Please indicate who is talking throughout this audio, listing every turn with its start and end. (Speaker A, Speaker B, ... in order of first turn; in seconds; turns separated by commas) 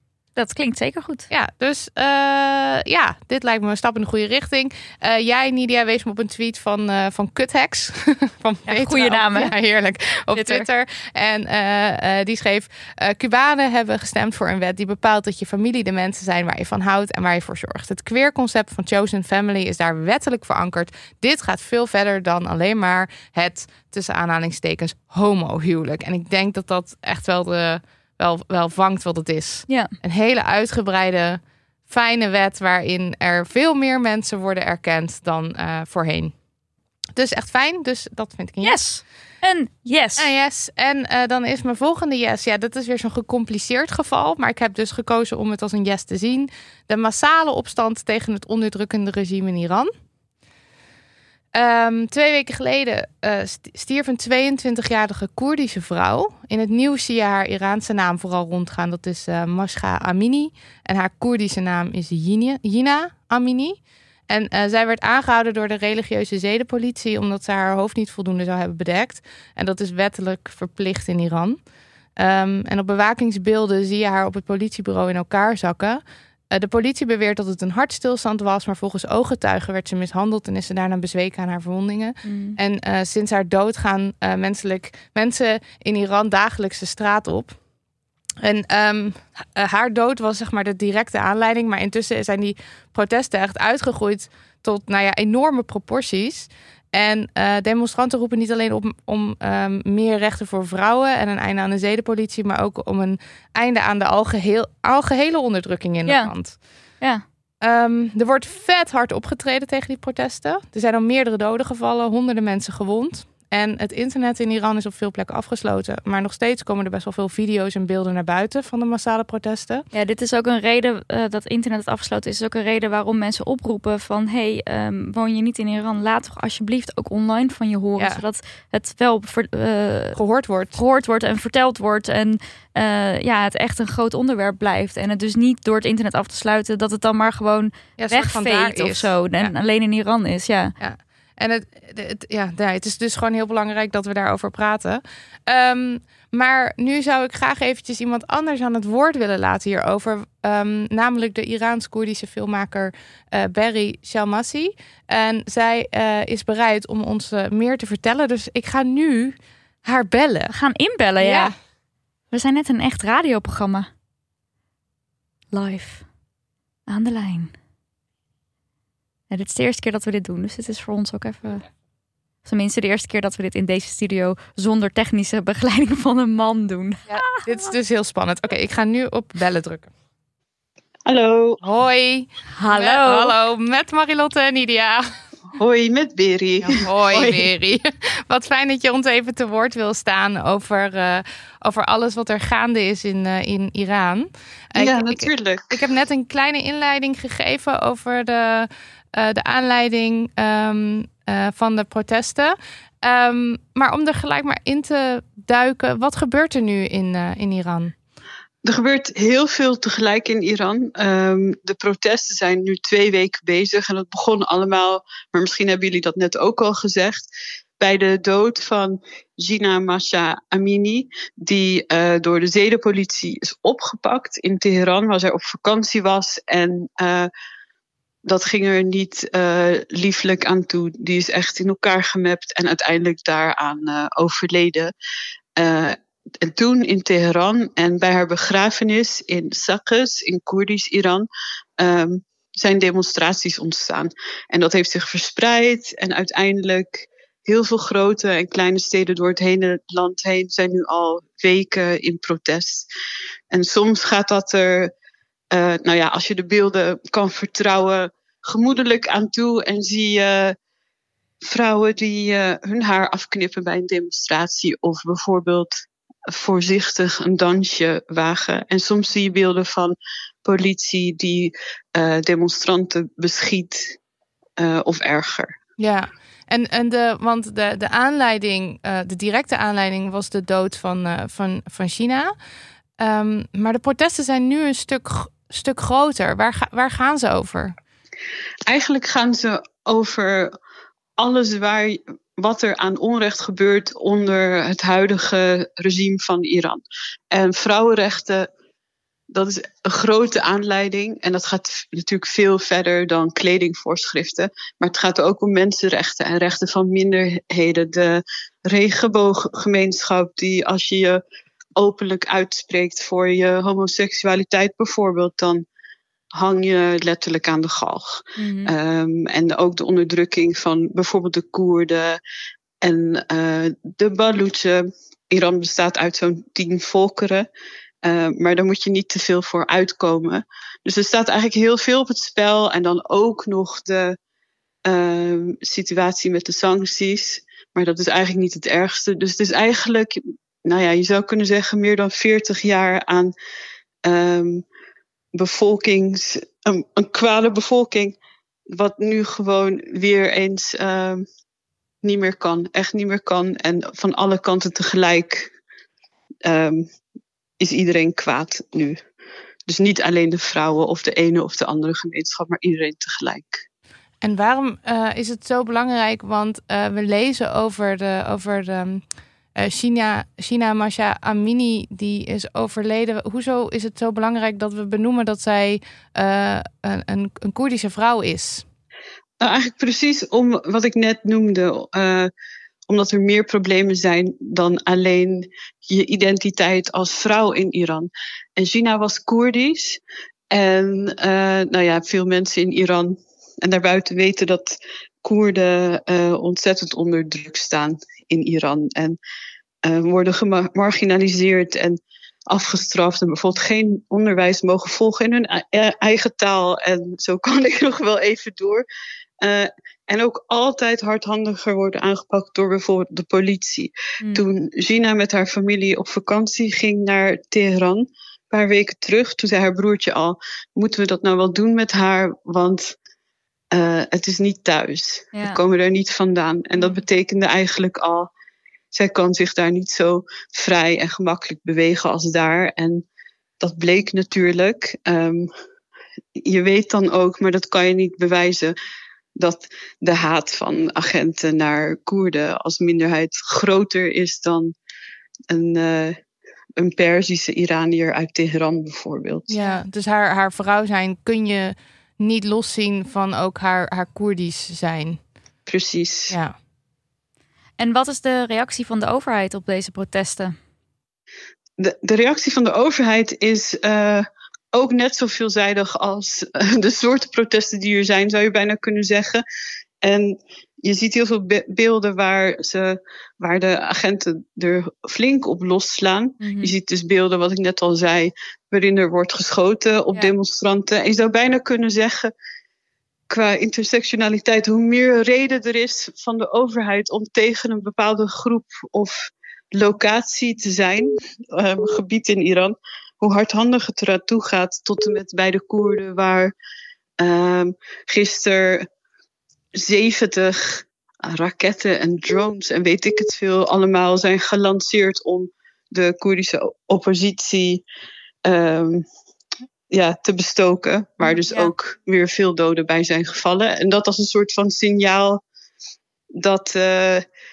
Speaker A: 0.3-1.3, Speaker B: 1.3-36.3, Speaker A: 8.7-9.5, Speaker A: 10.3-10.7, Speaker B: 37.2-38.8, Speaker A: 38.6-40.3, Speaker B: 40.2-49.9, Speaker B: 51.5-71.6, Speaker B: 72.2-87.6, Speaker A: 82.2-82.6, Speaker B: 88.4-106.6, Speaker A: 106.1-106.3, Speaker B: 107.6-119.8, Speaker A: 119.9-130.2, Speaker B: 130.2-130.8, Speaker A: 130.8-140.7, Speaker B: 138.0-139.5, Speaker B: 140.8-160.5, Speaker A: 160.5-161.5, Speaker B: 161.2-161.5, Speaker A: 162.3-163.9, Speaker A: 165.5-166.0, Speaker A: 166.9-167.5, Speaker A: 169.3-171.7, Speaker A: 172.4-177.5, Speaker B: 177.1-179.9, Speaker C: 181.1-181.6, Speaker B: 181.6-185.1, Speaker A: 182.5-183.3, Speaker C: 185.6-187.5, Speaker B: 186.6-207.9, Speaker C: 194.8-195.8, Speaker C: 208.7-217.3, Speaker C: 217.8-227.3, Speaker C: 228.2-234.9, Speaker C: 235.6-241.3, Speaker C: 241.8-252.9, Speaker C: 253.5-254.9, Speaker C: 255.5-260.6, Speaker C: 261.4-265.7, Speaker C: 266.3-274.0, Speaker C: 274.6-275.5, Speaker B: 275.8-282.3, Speaker B: 283.0-287.8, Speaker C: 288.7-290.5, Speaker C: 291.2-296.8, Speaker C: 297.3-298.5, Speaker C: 299.3-311.2, Speaker C: 311.8-315.6, Speaker C: 316.4-322.2, Speaker A: 318.4-318.7, Speaker C: 322.8-327.5, Speaker C: 328.0-334.2, Speaker C: 334.9-343.3, Speaker C: 344.1-344.6, Speaker C: 345.4-348.2, Speaker C: 348.7-351.2, Speaker C: 352.0-355.5, Speaker C: 356.4-356.9, Speaker C: 357.6-359.0, Speaker C: 359.7-363.6, Speaker B: 364.2-369.0, Speaker B: 369.6-378.6, Speaker C: 379.4-382.3, Speaker C: 382.9-399.2, Speaker C: 399.9-408.9, Speaker C: 409.4-422.9, Speaker C: 423.7-428.3, Speaker A: 425.3-425.6, Speaker C: 428.9-433.1, Speaker C: 433.6-435.5, Speaker C: 436.4-438.8, Speaker C: 439.4-444.7, Speaker C: 445.5-446.2, Speaker C: 446.8-449.5, Speaker B: 449.5-455.2, Speaker C: 455.7-456.4, Speaker B: 456.3-456.6, Speaker A: 457.8-460.6, Speaker C: 461.8-469.4, Speaker C: 470.0-482.3, Speaker A: 476.4-476.7, Speaker C: 483.3-496.5, Speaker C: 497.2-498.9, Speaker C: 499.8-507.8, Speaker C: 508.4-509.1, Speaker C: 509.9-515.4, Speaker A: 511.2-511.7, Speaker C: 516.4-517.2